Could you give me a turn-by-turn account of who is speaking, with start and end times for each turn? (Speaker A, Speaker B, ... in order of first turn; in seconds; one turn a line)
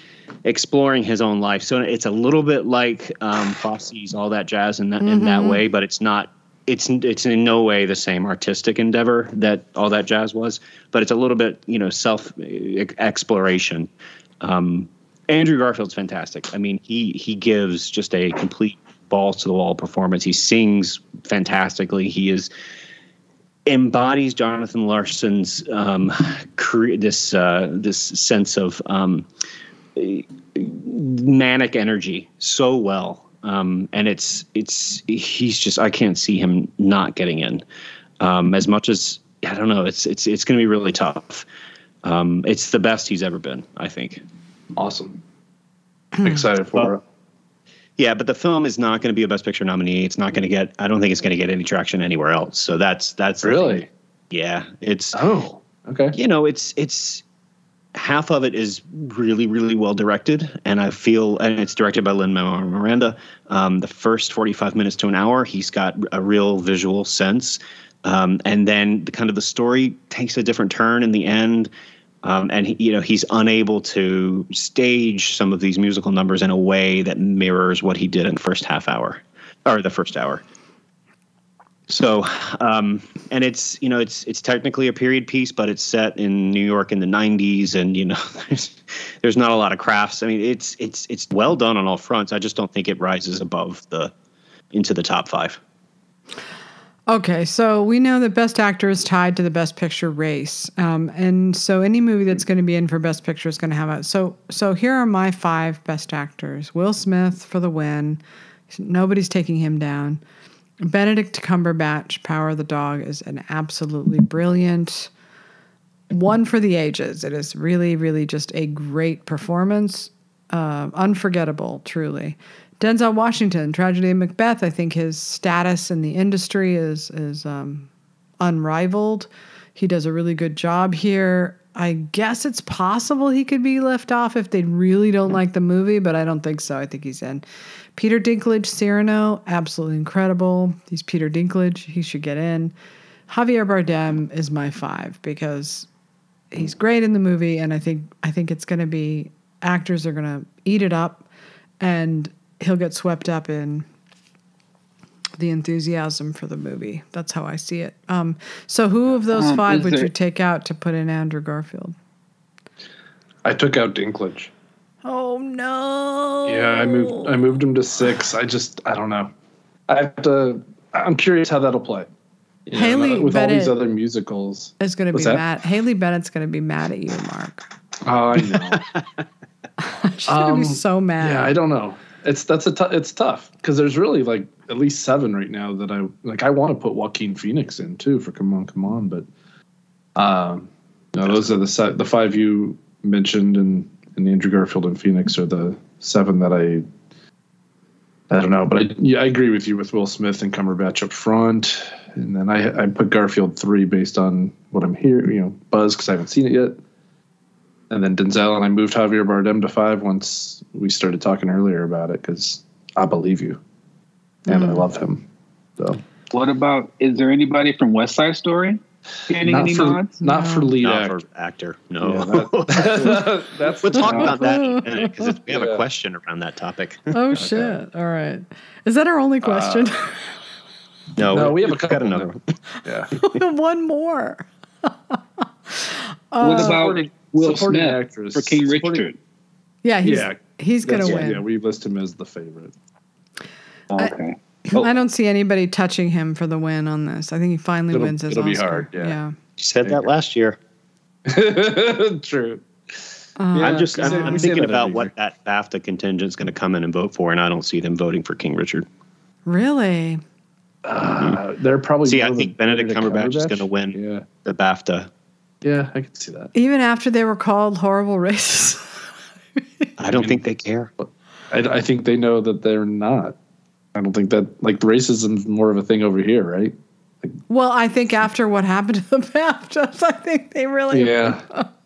Speaker A: 0.5-13.9
Speaker B: 5.0-5.6
Speaker A: 14.4-22.5
Speaker A: 23.7-29.3
Speaker A: 30.0-37.6
Speaker A: 38.2-41.5
Speaker A: 42.0-44.2
Speaker C: 44.8-45.2
Speaker B: 46.2-46.5
Speaker C: 46.2-47.0
Speaker A: 48.0-55.2
Speaker C: 53.4-53.9
Speaker C: 55.1-56.2
Speaker A: 56.1-57.2
Speaker A: 58.0-71.7
Speaker A: 72.2-80.4
Speaker A: 81.9-94.1
Speaker A: 94.7-95.6
Speaker B: 97.1-110.2
Speaker B: 110.8-115.1
Speaker B: 116.1-127.9
Speaker B: 128.4-137.4
Speaker B: 138.0-142.7
Speaker B: 143.3-145.9
Speaker B: 146.5-151.3
Speaker B: 151.8-153.9
Speaker B: 155.4-161.9
Speaker D: 159.3-160.1
Speaker C: 163.4-164.5
Speaker B: 165.1-167.3
Speaker C: 166.5-169.3
Speaker C: 169.9-172.1
Speaker C: 172.7-175.4
Speaker B: 172.7-173.8
Speaker B: 174.8-177.7
Speaker C: 178.0-178.9
Speaker B: 179.8-181.5
Speaker C: 180.3-189.3
Speaker C: 190.2-196.9
Speaker C: 198.3-206.8
Speaker C: 207.9-213.6
Speaker C: 214.5-216.0
Speaker B: 214.5-214.8
Speaker D: 216.3-220.1
Speaker C: 219.4-221.2
Speaker B: 220.2-220.8
Speaker A: 220.8-227.1
Speaker C: 222.0-225.8
Speaker B: 224.0-225.1
Speaker B: 227.1-230.3
Speaker C: 227.3-227.8
Speaker C: 229.4-229.9
Speaker A: 231.2-232.4
Speaker C: 231.3-232.3
Speaker B: 232.8-236.9
Speaker C: 232.8-233.1
Speaker D: 236.4-239.2
Speaker C: 236.4-239.0
Speaker B: 239.8-241.4
Speaker C: 240.0-242.7
Speaker D: 243.9-244.9
Speaker B: 244.7-249.3
Speaker C: 247.9-249.2
Speaker A: 249.6-250.6
Speaker C: 251.3-255.1
Speaker B: 253.4-254.6
Speaker A: 253.6-258.9
Speaker B: 259.5-260.2
Speaker C: 260.9-264.3
Speaker A: 262.1-265.1
Speaker C: 265.6-266.5
Speaker B: 266.5-269.9
Speaker A: 270.0-270.9
Speaker C: 270.1-270.4
Speaker C: 271.0-273.4
Speaker C: 273.9-277.3
Speaker B: 277.5-281.7
Speaker C: 280.9-281.4